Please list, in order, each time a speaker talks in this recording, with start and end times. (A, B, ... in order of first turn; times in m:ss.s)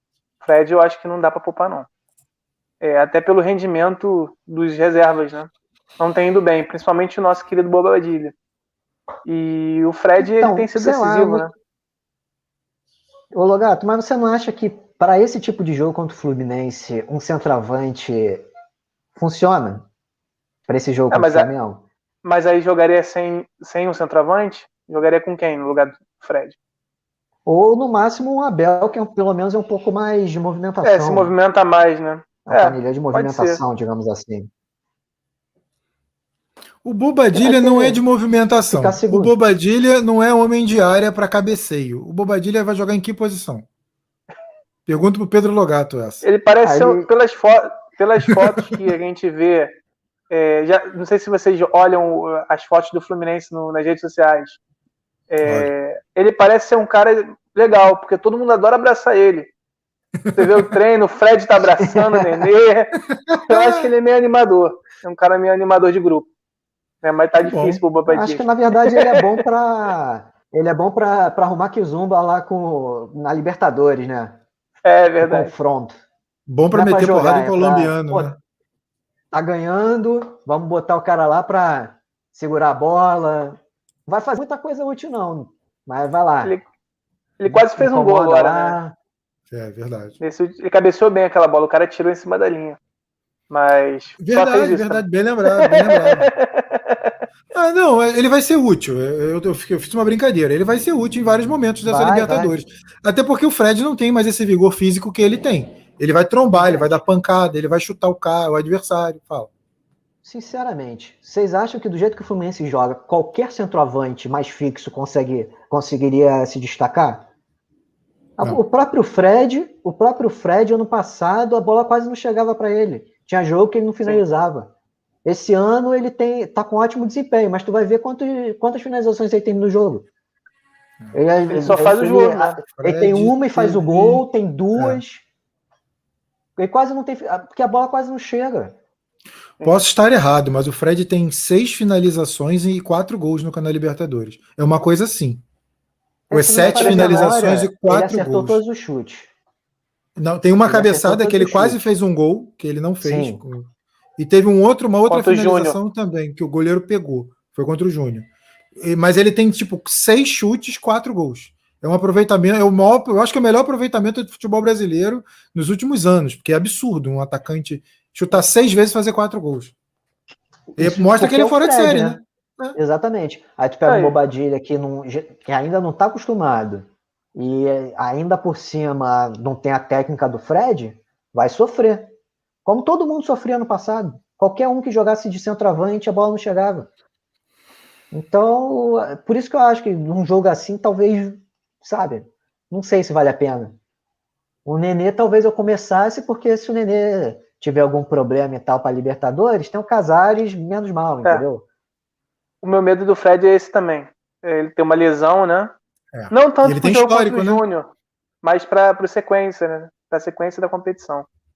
0:00.4-0:01.9 A
0:02.8-0:08.4 A
0:09.2-0:11.5 A
0:10.2-0:11.5 B
0:13.3-0:18.5 B
0:19.2-0:19.9 B
0:20.7-0:21.8 B
0:21.1-0:21.5 A
0:22.2-0:26.6 A
0:27.5-0:31.3 B
0:30.8-0:33.6 A
0:32.4-0:34.5 B
0:36.8-0:43.7 C
0:37.4-0:38.0 B
0:38.7-0:39.3 B
0:44.9-0:46.3 C
0:46.2-0:49.8 A
0:46.6-0:47.1 B
0:50.3-0:54.6 A
0:55.3-0:59.5 A
0:55.4-0:55.7 C
1:00.3-1:00.6 C
1:00.4-1:03.0 A
1:01.8-1:02.5 B
1:03.1-1:03.9 C
1:03.5-1:06.3 A
1:07.0-1:09.4 A
1:07.4-1:07.8 C
1:08.1-1:14.4 B
1:14.8-1:15.5 A
1:15.2-1:15.9 B
1:16.5-1:18.4 C
1:16.7-1:18.3 B
1:19.3-1:26.6 B
1:27.4-1:28.8 A
1:27.5-1:29.0 B
1:29.5-1:30.2 C
1:30.2-1:32.8 A
1:33.5-1:37.2 A
1:34.2-1:36.3 C
1:37.5-1:49.5 C
1:41.9-1:42.5 B
1:46.5-1:47.0 B
1:50.2-1:57.3 B
1:58.4-2:04.7 B
2:05.2-2:10.1 B
2:11.1-2:15.2 B
2:11.5-2:12.6 A
2:12.8-2:14.2 C
2:14.8-2:15.0 C
2:16.6-2:18.8 B
2:19.6-2:25.4 C
2:26.3-2:29.3 B
2:26.3-2:28.6 C
2:26.6-2:27.3 A
2:30.2-2:49.7 C
2:30.6-2:31.8 B
2:33.0-2:33.4 B
2:35.1-2:35.8 A
2:50.8-2:52.2 B
2:50.8-2:52.8 C
2:52.8-3:02.1 B
2:53.9-2:54.2 A
3:02.6-3:06.9 B
3:08.1-3:13.8 B
3:14.6-3:21.6 B
3:22.6-3:25.7 A
3:26.1-3:27.6 C
3:26.3-3:27.9 A
3:28.4-3:31.3 A